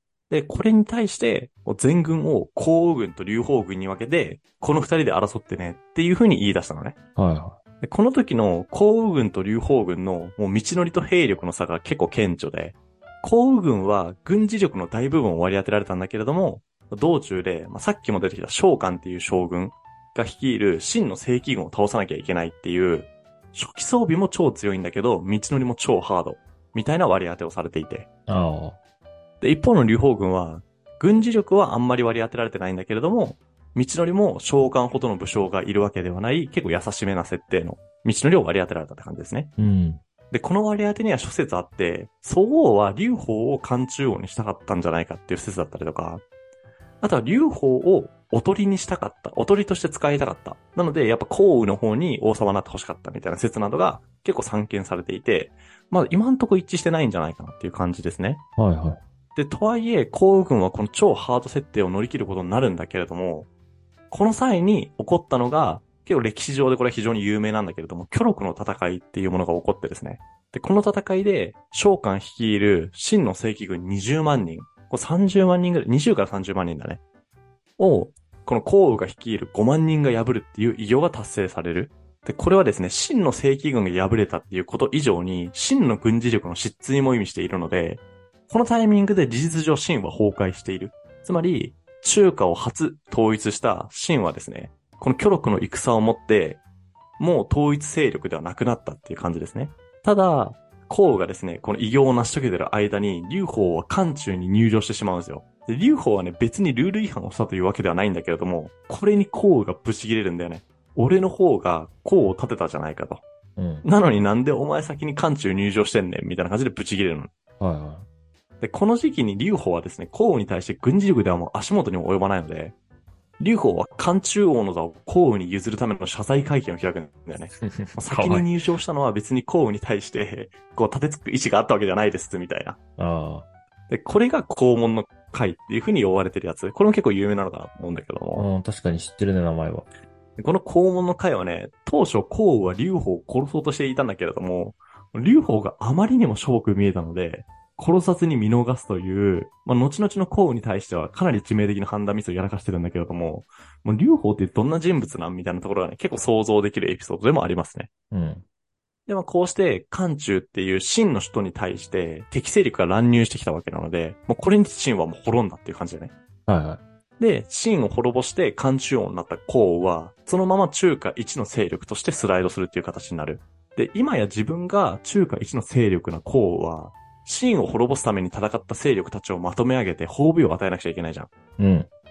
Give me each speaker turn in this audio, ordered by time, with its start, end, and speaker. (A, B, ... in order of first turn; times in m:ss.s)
0:00.3-0:07.0 A
0:07.2-0:07.6 B
0:07.8-0:28.1 A
0:28.3-0:28.8 B
0:29.4-0:39.5 A
0:39.6-0:40.0 B
0:40.3-0:46.2 A
0:47.0-0:58.4 A
0:58.6-0:59.0 B
0:59.4-1:03.5 A
1:04.1-1:17.0 A
1:17.8-1:36.6 A
1:37.2-1:53.2 A
1:53.6-1:53.9 B
1:53.8-1:57.3 A
1:57.6-1:58.1 B
1:58.6-2:02.8 A
2:03.4-2:12.8 A
2:07.6-2:08.5 B
2:13.0-2:13.5 B
2:13.9-2:18.5 A
2:18.4-2:19.9 B
2:20.4-2:37.9 A
2:38.1-2:38.4 B
2:39.1-2:46.1 A
2:46.5-2:46.8 B
2:47.2-3:01.3 A
3:01.6-3:01.9 B